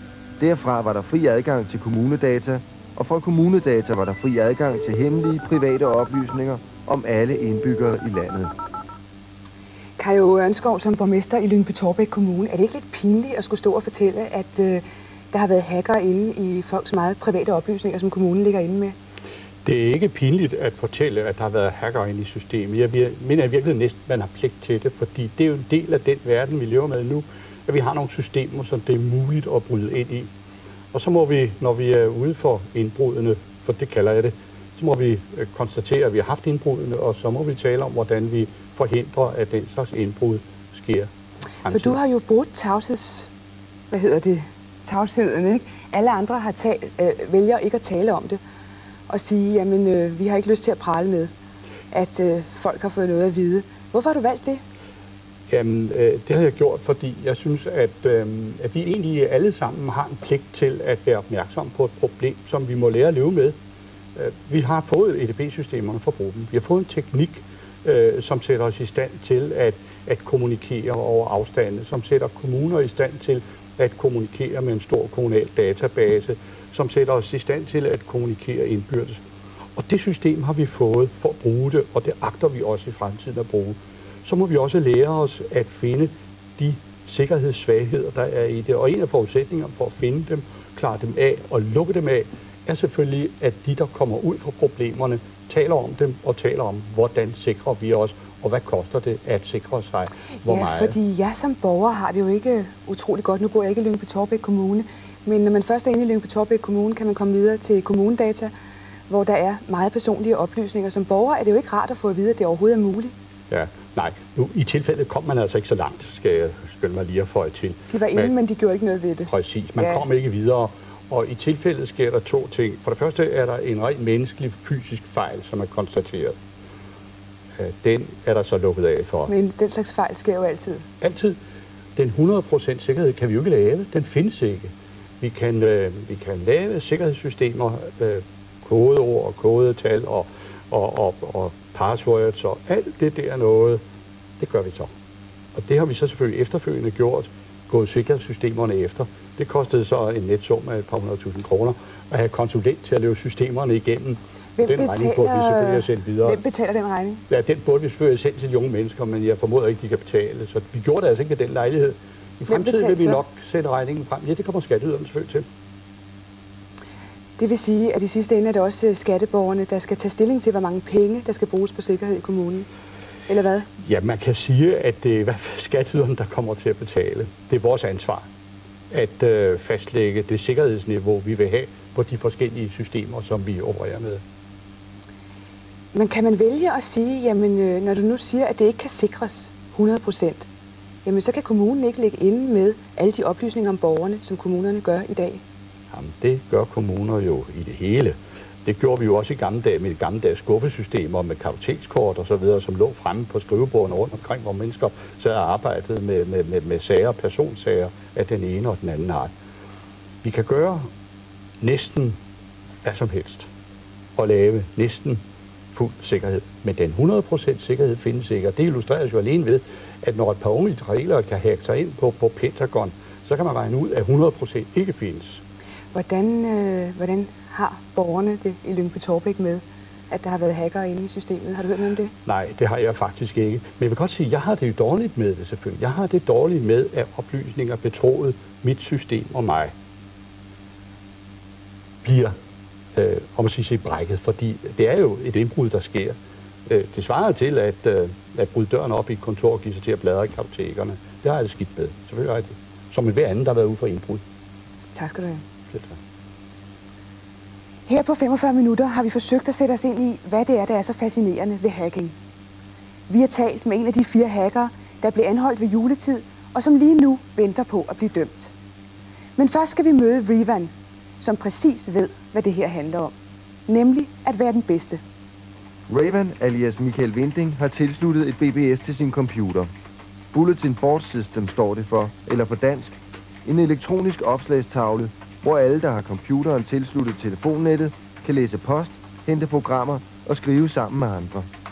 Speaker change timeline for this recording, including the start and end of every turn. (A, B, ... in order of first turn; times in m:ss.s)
0:00.4-0:08.5 A
0:10.0-0:18.9 B
0:19.6-0:30.3 C
0:30.9-0:41.1 C
0:41.6-0:42.0 C
0:41.7-0:43.3 B
0:43.9-0:48.4 B
0:49.1-0:51.3 B
0:51.9-0:54.6 B
0:55.5-1:03.6 C
1:04.2-1:19.2 C
1:19.8-1:41.0 C
1:40.4-1:48.5 B
1:49.1-1:53.1 B
1:53.5-1:58.4 C
1:57.9-2:00.1 B
1:59.3-2:06.4 C
2:07.6-2:09.3 C
2:09.3-2:10.8 B
2:11.0-2:11.4 C
2:12.0-2:23.8 C
2:24.4-2:24.9 C
2:25.6-2:36.4 C
2:34.6-2:37.2 B
2:37.3-2:45.5 C
2:42.5-2:43.2 B
2:47.4-2:52.7 B
2:53.3-2:53.7 B
2:53.8-2:58.3 C
2:58.9-3:04.2 C
3:05.9-3:10.5 B
3:11.0-3:15.4 B
3:15.9-3:29.3 C
3:30.2-3:30.9 C
3:31.6-3:32.2 C
3:32.8-3:33.5 C
3:34.2-3:35.2 C
3:35.7-3:45.4 C
3:45.9-3:52.1 B
3:52.2-3:59.7 C
4:02.0-4:02.4 C
4:03.0-4:14.2 C
4:14.9-4:15.4 B
4:15.7-4:16.0 C
4:17.9-4:22.1 B
4:23.1-4:28.5 B
4:29.4-4:33.1 B
4:33.7-4:35.0 B
4:35.9-4:39.7 A
4:40.3-4:43.0 A
4:43.5-4:51.5 A